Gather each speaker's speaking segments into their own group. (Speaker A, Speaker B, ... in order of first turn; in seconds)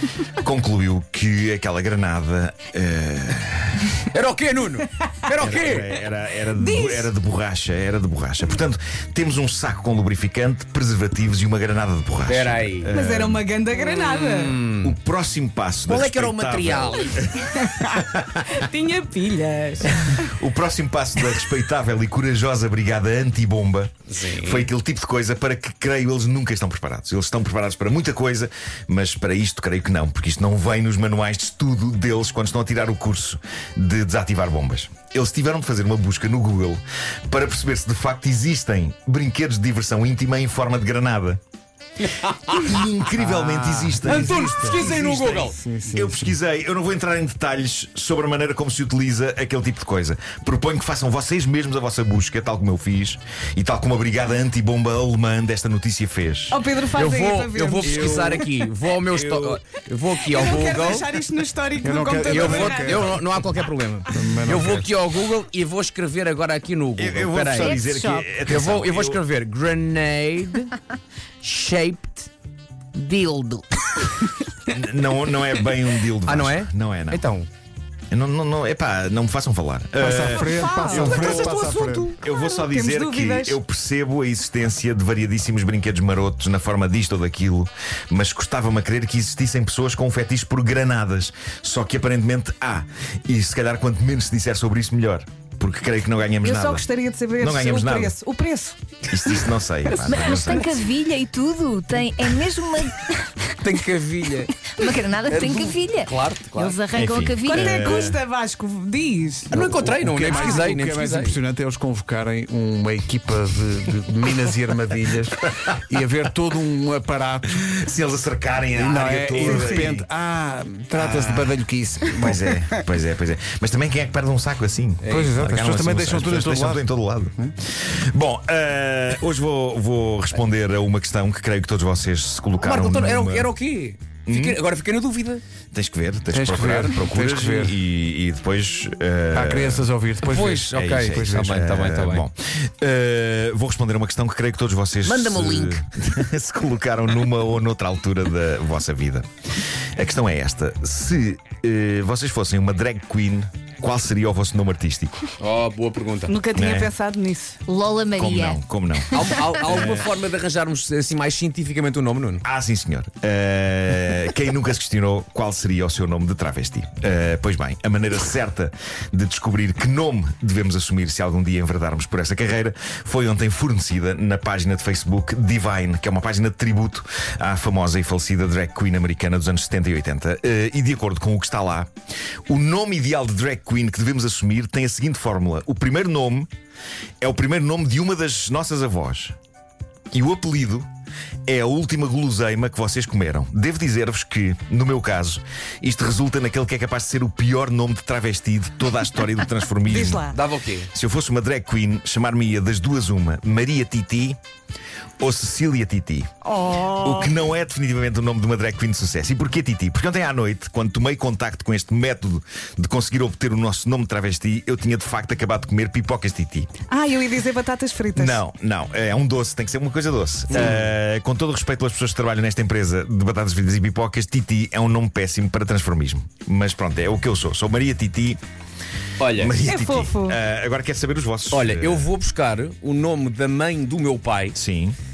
Speaker A: 0.3-4.0, 5.4-13.4, 14.8-18.5, 19.9-41.4, 42.5-56.6, 67.0-69.2, 74.7-77.2, 78.1-81.7, 82.2-96.8, 97.4-98.1, 99.1-100.8, 106.9-108.2, 117.6-120.1, 120.9-133.5, 134.3-134.6, 135.7-139.9, 140.4-149.3, 149.9-155.3, 156.5-156.9, 158.1-160.1, 162.4-181.9, 182.5-186.5, 187.2-189.3, 190.1-190.9, 191.5-200.3, 200.9-204.4, 205.2-206.3, 207.0-216.7, 218.1-228.4, 229.3-232.1, 234.5-235.0
Speaker B: 4.1-5.9, 12.3-12.9, 13.8-15.0, 15.9-17.2, 24.1-24.7, 42.0-42.8, 44.0-45.5, 56.9-61.1, 62.3-67.9, 68.4-70.8, 71.4-72.3, 72.9-74.4, 76.2-77.5, 103.6-106.8, 109.5-111.3, 125.0-125.6, 132.6-135.4, 140.3-142.2, 145.0-145.8, 155.4-156.3, 159.1-162.4, 200.3-200.9, 220.5-220.9, 229.2-229.5, 231.5-234.6
Speaker C: 6.6-7.1, 12.9-14.6, 18.5-19.9, 56.5-58.4, 60.2-63.1, 80.4-83.6, 96.4-98.8, 100.0-100.7, 107.5-109.8, 110.3-110.6, 156.3-157.6, 199.9-200.3, 206.4-207.3, 216.9-218.4, 229.6-230.4
Speaker D: 43.1-46.4, 57.8-58.4, 59.3-59.6, 61.8-63.2, 64.1-64.9, 80.0-82.2, 109.5-117.6, 118.8-122.8, 125.0-126.8, 136.3-137.8, 139.3-141.5
Speaker E: 67.5-68.3, 99.9-103.5, 104.7-108.1, 157.7-158.6, 159.1-159.4